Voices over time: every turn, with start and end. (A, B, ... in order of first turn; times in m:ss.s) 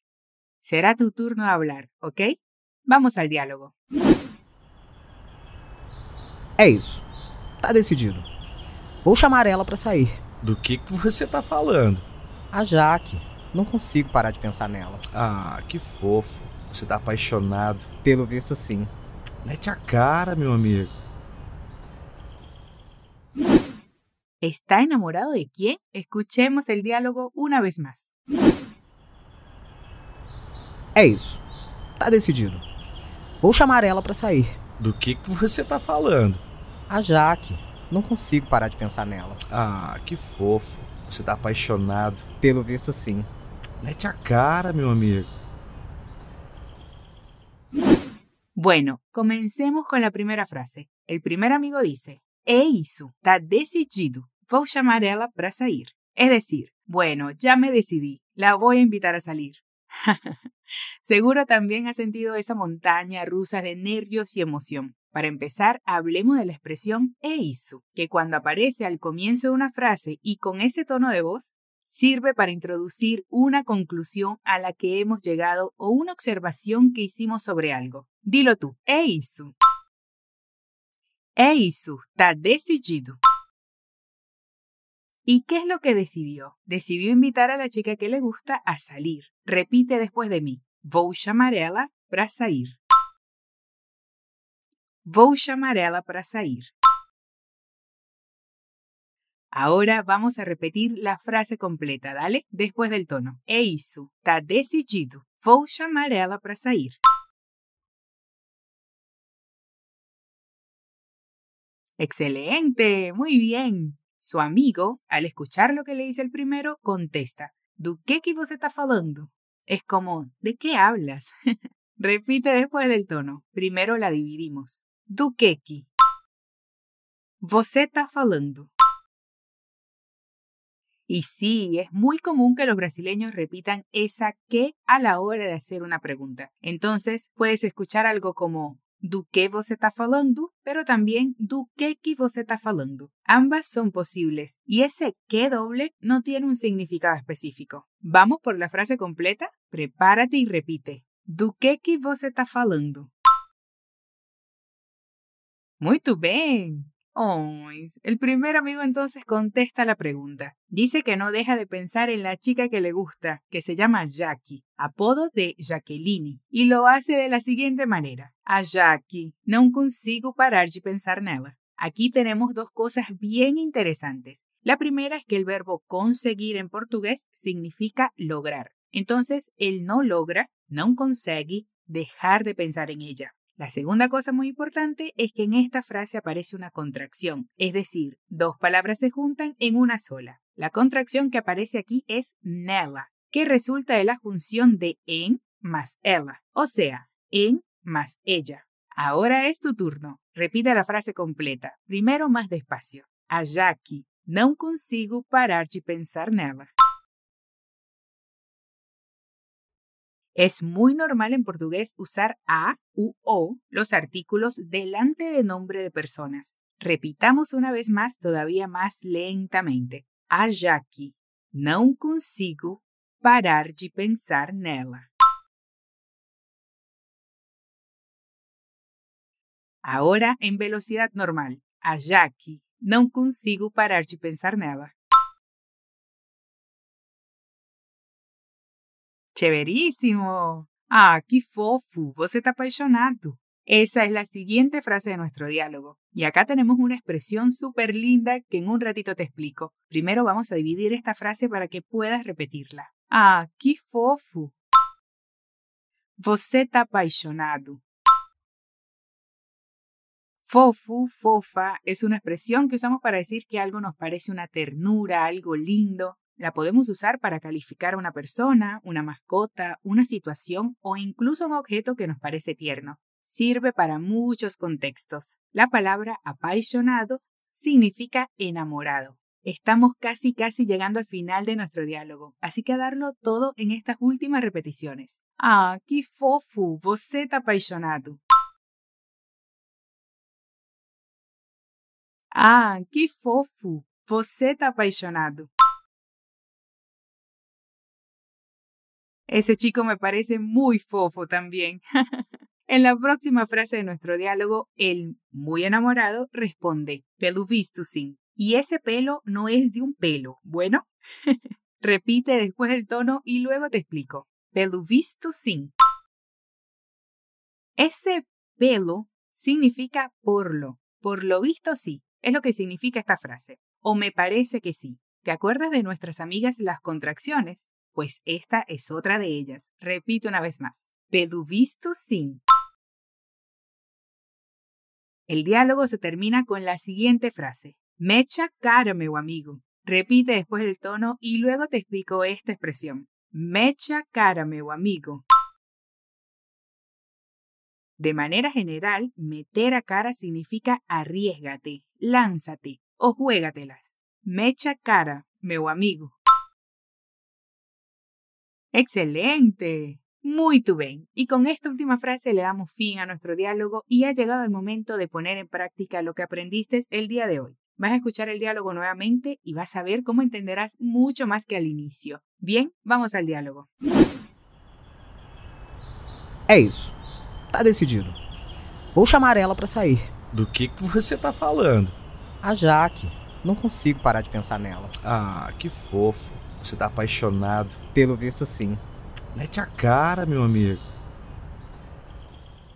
0:00.6-0:02.3 A
0:02.8-0:03.7 A
0:06.6-0:07.0 B
0:07.6-0:08.3 B
0:09.0-0:10.2 B
0:10.4-0:12.0 C
0:12.5-0:15.0 B
0:15.1-0:17.9 C
0:18.0-0:18.9 B
0:19.4-0:20.9 C
0:24.4-0:28.1 A
0:30.9-0:31.4 B
0:32.0-0:32.6 B
0:33.4-0:34.6 B
0:34.8-0:36.4 C
0:36.9-0:39.4 B
0:39.5-0:42.2 C
0:42.4-0:43.3 B
0:43.8-0:45.3 C
0:48.5-1:00.4 A
1:01.0-1:19.5 A
1:21.4-1:23.2 A
1:25.2-1:32.8 A
1:35.0-1:36.7 A
1:39.5-1:47.0 A
1:52.0-2:01.3 A
2:02.0-2:05.9 A
2:07.4-2:08.7 A
2:11.1-2:33.1 A
2:35.8-3:26.7 A
3:30.3-3:45.1 A
3:49.8-3:54.9 A
3:59.3-4:14.5 A
4:16.2-4:17.8 A
4:20.4-4:48.2 A
4:52.3-4:55.5 A
4:59.3-5:01.8 A
5:02.6-5:15.7 A
5:17.8-5:32.4 A
5:35.3-5:45.2 A
5:48.0-5:56.2 A
5:58.7-6:13.7 A
6:16.5-6:16.9 B
6:17.5-6:18.2 B
6:18.9-6:20.1 B
6:20.3-6:21.9 C
6:22.4-6:24.9 B
6:25.0-6:27.8 C
6:27.9-6:28.8 B
6:29.3-6:30.8 C